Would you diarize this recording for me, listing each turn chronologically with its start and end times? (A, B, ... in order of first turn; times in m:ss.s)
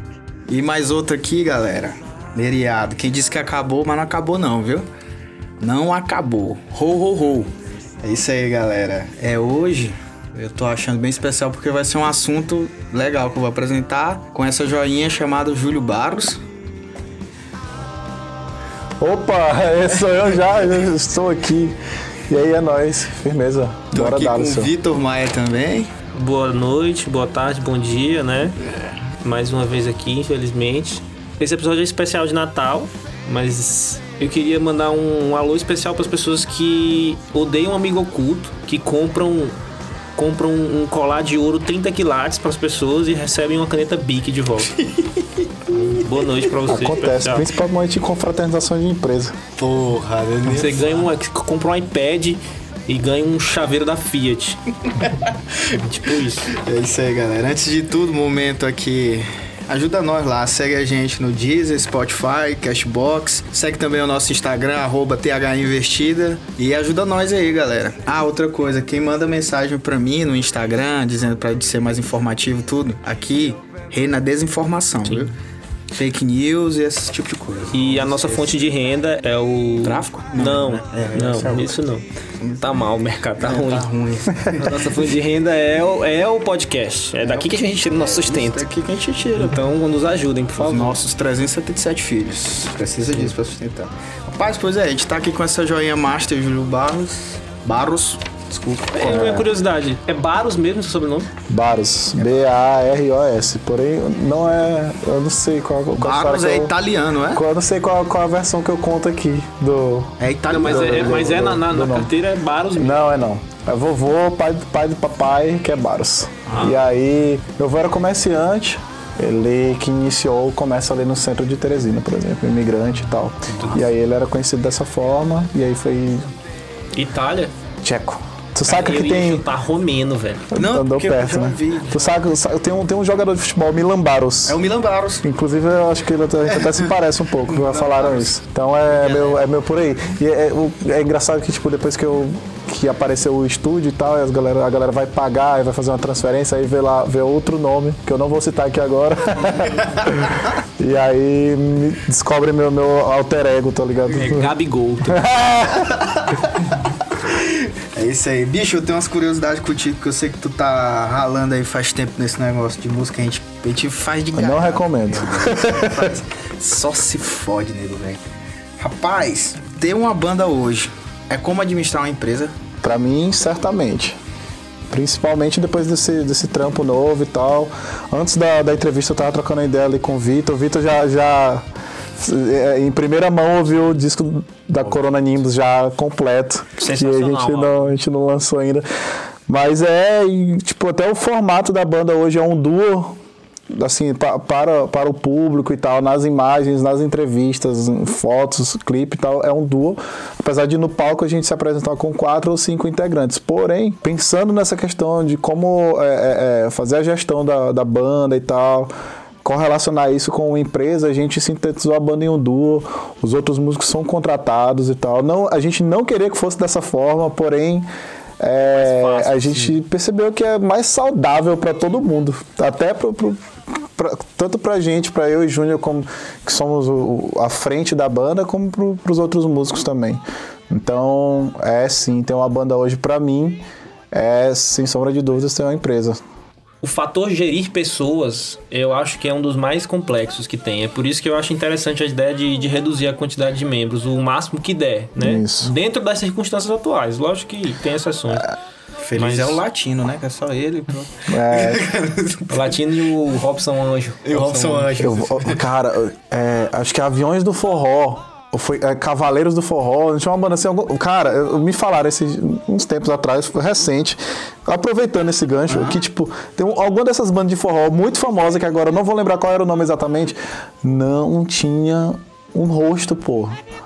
0:00.5-0:04.9 A
0:05.6-0:07.5 A
0:08.0-0:16.4 A
0:19.0-0:24.7 B
0:23.9-0:25.9 A
0:26.1-0:28.6 C
0:29.2-0:39.6 C
0:40.2-0:44.7 C
0:44.7-0:46.1 A
0:45.7-0:47.5 C
0:46.6-0:49.4 B
0:49.6-0:50.9 A
0:50.4-0:55.1 C
0:54.9-1:15.3 A
0:55.7-0:56.5 C
1:15.0-1:15.3 C
1:15.9-1:18.6 A
1:17.7-1:23.9 C
1:19.8-1:21.8 A
1:22.4-1:22.7 A
1:23.4-1:25.0 A
1:24.5-1:28.6 C
1:27.2-1:29.6 A
1:29.3-1:31.0 C
1:30.6-1:39.5 A
1:38.9-1:41.3 C
1:41.5-1:46.7 B
1:42.2-1:42.4 A
1:46.0-1:47.4 A
1:47.3-1:52.1 B
1:50.2-1:51.3 A
1:50.5-1:53.3 C
1:52.8-2:06.3 B
1:56.5-1:56.8 C
2:06.9-2:07.5 C
2:07.8-2:09.4 B
2:08.6-2:10.5 C
2:10.5-2:14.6 B
2:10.5-2:12.2 A
2:14.5-2:15.2 A
2:15.2-2:34.5 B
2:17.5-2:19.4 A
2:34.1-2:35.3 C
2:35.0-2:36.0 B
2:35.9-2:48.2 A
2:44.3-2:46.1 B
2:48.8-2:52.5 A
2:52.8-2:54.2 B
2:54.9-3:01.6 B
3:02.2-3:08.8 B
3:06.8-3:07.9 C
3:09.5-3:13.2 B
3:13.7-3:28.9 B
3:29.4-3:37.9 B
3:38.4-3:56.2 B
3:38.7-3:39.8 C
3:56.8-4:08.5 C
4:05.2-4:05.7 B
4:09.0-4:12.8 A
4:09.2-4:09.6 C
4:11.3-4:11.9 B
4:12.5-4:15.0 C
4:14.2-4:15.6 A
4:15.0-4:33.6 B
4:25.7-4:26.0 A